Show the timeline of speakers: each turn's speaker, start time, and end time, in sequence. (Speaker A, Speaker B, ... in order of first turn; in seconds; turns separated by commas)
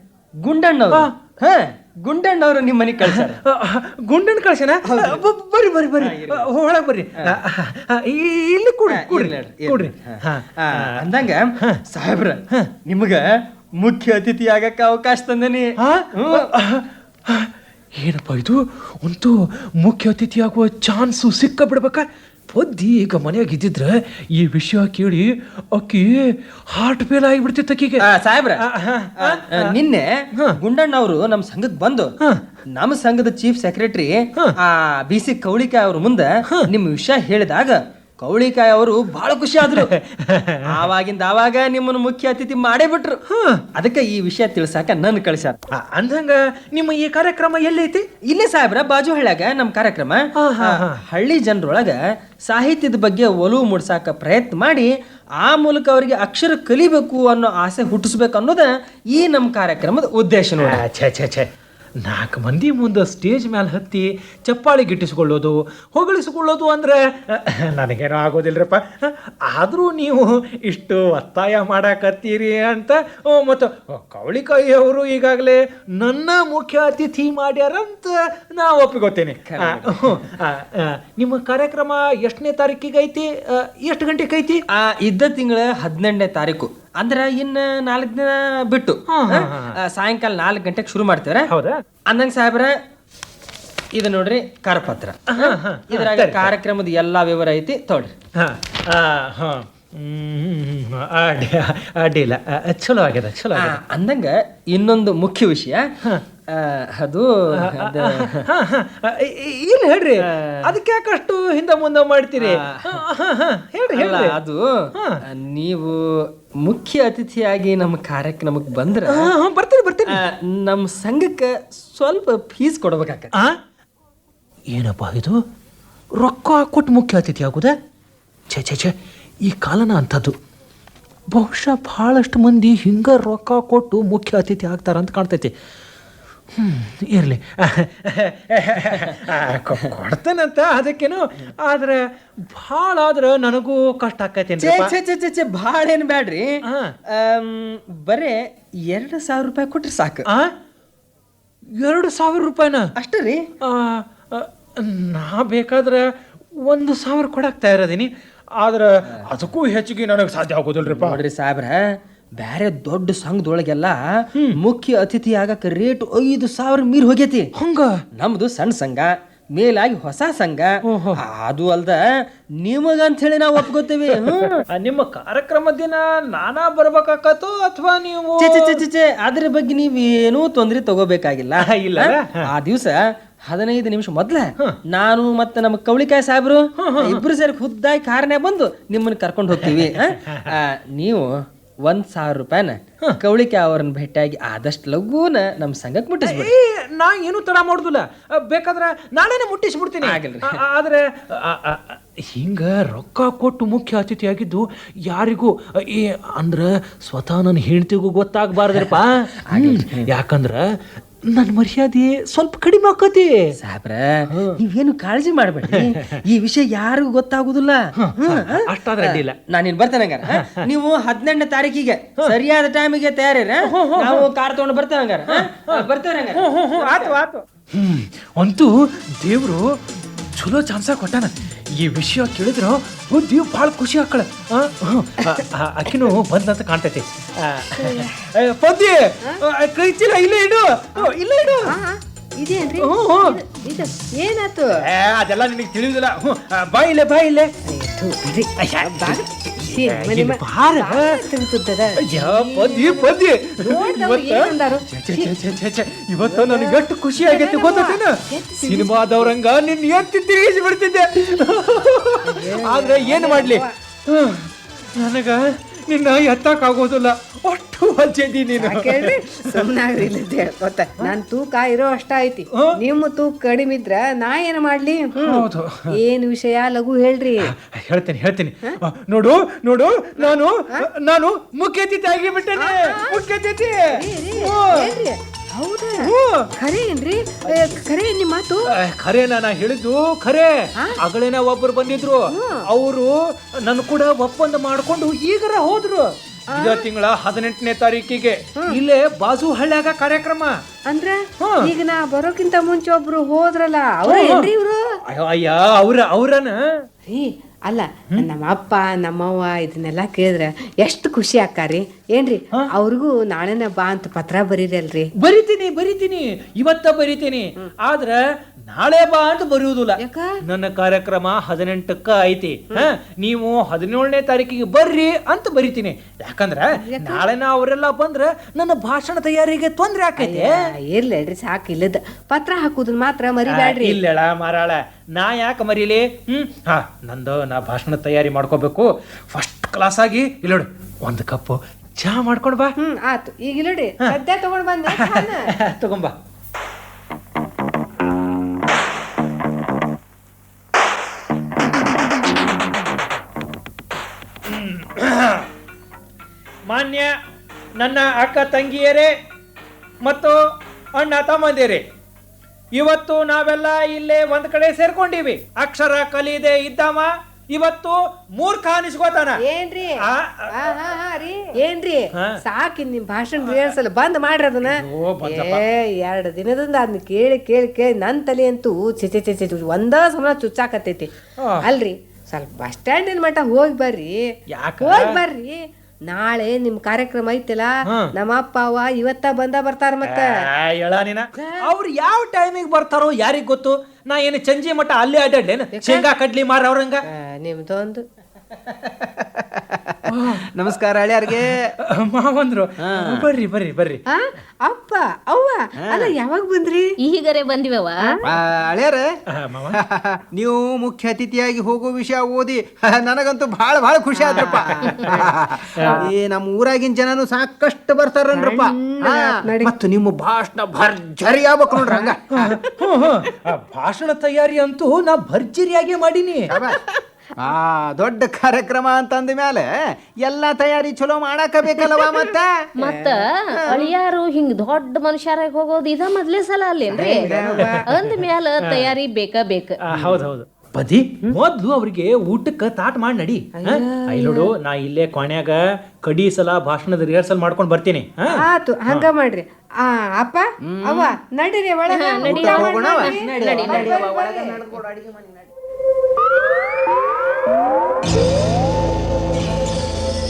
Speaker A: 0.4-3.4, Speaker B: 3.0-11.1, Speaker A: 4.8-5.2, Speaker A: 6.0-6.5, Speaker A: 8.9-13.2, Speaker A: 13.8-15.6, Speaker B: 15.8-28.0, Speaker A: 16.1-16.5, Speaker A: 28.0-28.6, Speaker B: 28.6-29.7, Speaker A: 29.2-32.1, Speaker A: 32.7-39.9, Speaker B: 39.6-40.9, Speaker A: 40.7-43.2, Speaker B: 43.3-43.6, Speaker A: 43.8-45.6, Speaker B: 45.7-48.0, Speaker A: 48.3-54.9, Speaker B: 50.4-51.0, Speaker A: 55.4-60.8, Speaker B: 60.6-61.5, Speaker B: 62.0-84.6, Speaker A: 79.5-80.2, Speaker A: 84.7-91.5, Speaker B: 89.1-89.8, Speaker B: 91.5-91.7, Speaker A: 92.1-92.7, Speaker A: 93.9-98.1, Speaker B: 95.3-96.5, Speaker B: 98.4-103.8, Speaker A: 103.5-105.8, Speaker A: 106.5-108.4, Speaker B: 107.6-114.3, Speaker A: 110.2-110.8, Speaker A: 112.4-113.0, Speaker A: 113.9-114.6, Speaker A: 115.3-116.0, Speaker A: 116.6-119.3, Speaker B: 119.0-120.2, Speaker A: 120.1-123.3, Speaker B: 124.7-125.3, Speaker B: 126.2-127.7, Speaker B: 128.5-130.3, Speaker B: 131.3-135.5, Speaker B: 136.6-144.9, Speaker A: 144.6-146.5, Speaker B: 146.7-146.9, Speaker A: 147.1-148.3, Speaker A: 148.9-150.2, Speaker B: 151.8-152.9, Speaker A: 153.0-153.4, Speaker B: 153.6-156.1, Speaker B: 156.6-161.2, Speaker A: 160.9-161.8, Speaker A: 162.4-164.0, Speaker A: 164.6-167.5, Speaker B: 167.6-168.0, Speaker A: 168.2-172.0, Speaker B: 170.9-171.2, Speaker A: 172.6-174.6, Speaker B: 174.2-178.8, Speaker A: 178.4-182.9, Speaker B: 181.6-182.4, Speaker A: 183.5-191.3, Speaker B: 186.8-187.2, Speaker B: 189.6-190.6, Speaker A: 191.8-196.5, Speaker B: 196.2-210.7, Speaker A: 200.0-200.6, Speaker A: 208.7-210.1, Speaker B: 211.3-213.5, Speaker A: 213.6-227.2, Speaker B: 214.3-214.6, Speaker B: 215.7-216.2, Speaker B: 217.9-219.4, Speaker B: 220.3-220.7, Speaker B: 223.6-224.3, Speaker B: 225.3-229.8, Speaker B: 230.3-241.7, Speaker C: 241.6-244.7, Speaker B: 242.8-243.4, Speaker B: 244.8-247.5, Speaker C: 247.7-255.3, Speaker B: 248.6-251.2, Speaker B: 252.0-269.6, Speaker C: 256.2-259.3, Speaker C: 262.2-263.7, Speaker C: 268.6-277.5, Speaker B: 275.2-275.9, Speaker B: 277.4-284.9, Speaker C: 280.2-280.9, Speaker C: 282.5-283.2, Speaker C: 283.9-288.7, Speaker B: 286.0-286.5, Speaker B: 288.6-300.5, Speaker C: 292.3-292.6, Speaker C: 296.5-296.8, Speaker C: 300.9-304.8, Speaker B: 301.4-301.7, Speaker B: 304.0-304.5, Speaker B: 305.1-306.6, Speaker C: 307.1-315.1, Speaker B: 315.2-330.6, Speaker C: 320.0-320.3, Speaker C: 326.8-327.3, Speaker C: 330.2-334.0, Speaker B: 333.5-342.8, Speaker C: 342.8-345.5, Speaker B: 344.9-346.1, Speaker B: 354.5-355.5, Speaker B: 356.7-357.1, Speaker B: 357.8-359.1, Speaker B: 360.0-360.4, Speaker B: 361.0-361.8, Speaker B: 362.8-369.4, Speaker C: 369.4-381.1, Speaker B: 370.0-370.7, Speaker B: 372.1-372.4, Speaker B: 373.4-373.7, Speaker B: 374.6-375.6, Speaker B: 381.4-381.7, Speaker C: 381.6-384.2, Speaker B: 384.5-385.2, Speaker C: 384.8-390.3, Speaker B: 387.8-388.1, Speaker B: 390.0-397.0, Speaker C: 391.4-391.7, Speaker C: 395.7-396.1, Speaker C: 397.1-398.0, Speaker D: 398.9-401.7, Speaker B: 400.1-400.5, Speaker B: 401.2-404.0, Speaker D: 402.8-403.2, Speaker C: 404.1-406.9, Speaker D: 405.8-406.1, Speaker E: 407.0-408.2, Speaker D: 408.2-409.1, Speaker B: 409.3-409.8, Speaker D: 409.7-422.5, Speaker C: 414.1-415.3, Speaker B: 415.8-416.1, Speaker C: 418.3-419.7, Speaker C: 421.8-422.6, Speaker B: 422.3-426.5, Speaker C: 426.5-427.0, Speaker D: 426.5-426.8, Speaker D: 427.4-432.6, Speaker C: 431.8-432.3, Speaker E: 432.8-439.8, Speaker C: 432.8-433.2, Speaker D: 433.6-433.9, Speaker C: 436.9-437.9, Speaker D: 437.2-437.6, Speaker B: 437.6-438.9, Speaker B: 439.9-449.1, Speaker D: 439.9-440.2, Speaker C: 443.6-444.4, Speaker C: 448.3-454.6, Speaker D: 450.6-451.0, Speaker E: 451.9-453.9, Speaker D: 452.2-455.5